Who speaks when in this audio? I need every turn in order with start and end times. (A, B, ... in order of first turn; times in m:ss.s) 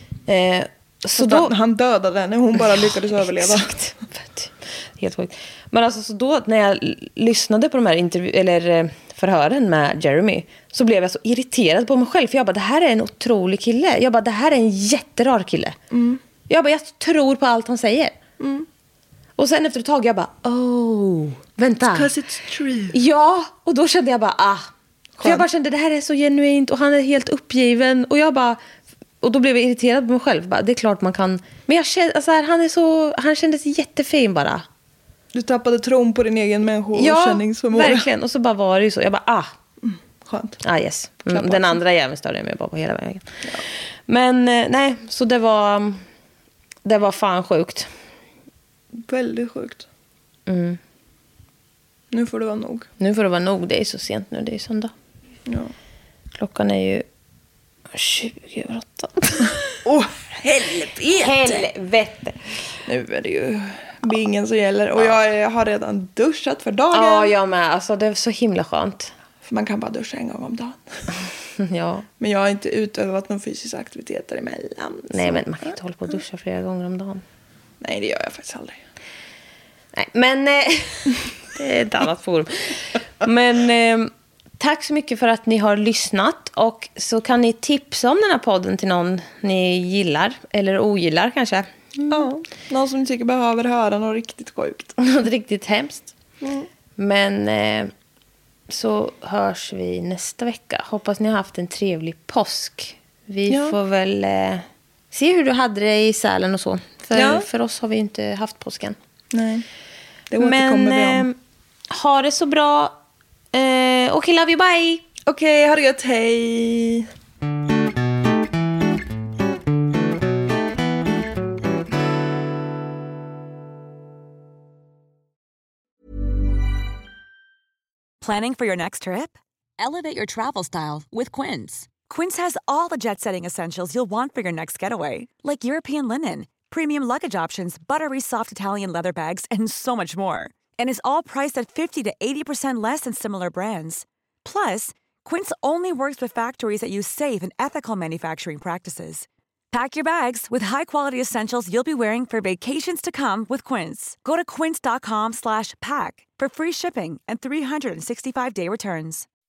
0:00.3-0:01.5 A
0:01.2-0:03.8 B
0:02.8-0:15.8 A
0:15.9-0:16.2 B
0:16.5-0:18.2 A
0:18.4-0:18.7 B
0:19.4-0:22.1 A
0:21.9-0:23.0 B
0:22.9-0:24.7 A
0:25.2-0:25.4 B
0:25.2-0:28.6 A
0:29.2-0:34.7 A
0:35.3-0:38.1 B
0:37.0-0:39.5 A
0:39.8-0:40.6 B
0:40.6-0:43.3 A
0:41.3-0:41.8 B
0:44.1-0:46.0 A
0:46.8-0:47.9 A
0:48.9-0:49.9 B
0:50.5-0:50.8 A
0:52.1-0:52.9 B
0:53.0-0:54.9 A
0:55.5-0:55.7 B
0:56.4-0:57.1 A
0:57.9-0:59.6 A
0:59.8-1:01.7 B
1:01.2-1:02.4 A
1:02.9-1:07.3 B
1:06.9-1:09.1 A
1:09.4-1:11.0 B
1:11.6-1:12.1 A
1:12.2-1:15.6 B
1:15.1-1:17.2 A
1:17.8-1:18.8 B
1:20.0-1:32.3 A
1:32.1-1:35.0 B
1:35.0-1:36.1 A
1:36.4-1:36.7 B
1:37.0-1:37.9 A
1:38.7-1:49.0 A
1:43.5-1:43.8 B
1:47.2-1:47.5 B
1:49.3-1:49.7 B
1:50.3-1:51.3 B
1:50.4-1:51.4 A
1:51.9-1:53.0 A
1:53.5-1:55.0 A
1:55.2-1:57.1 B
2:08.2-2:39.3 C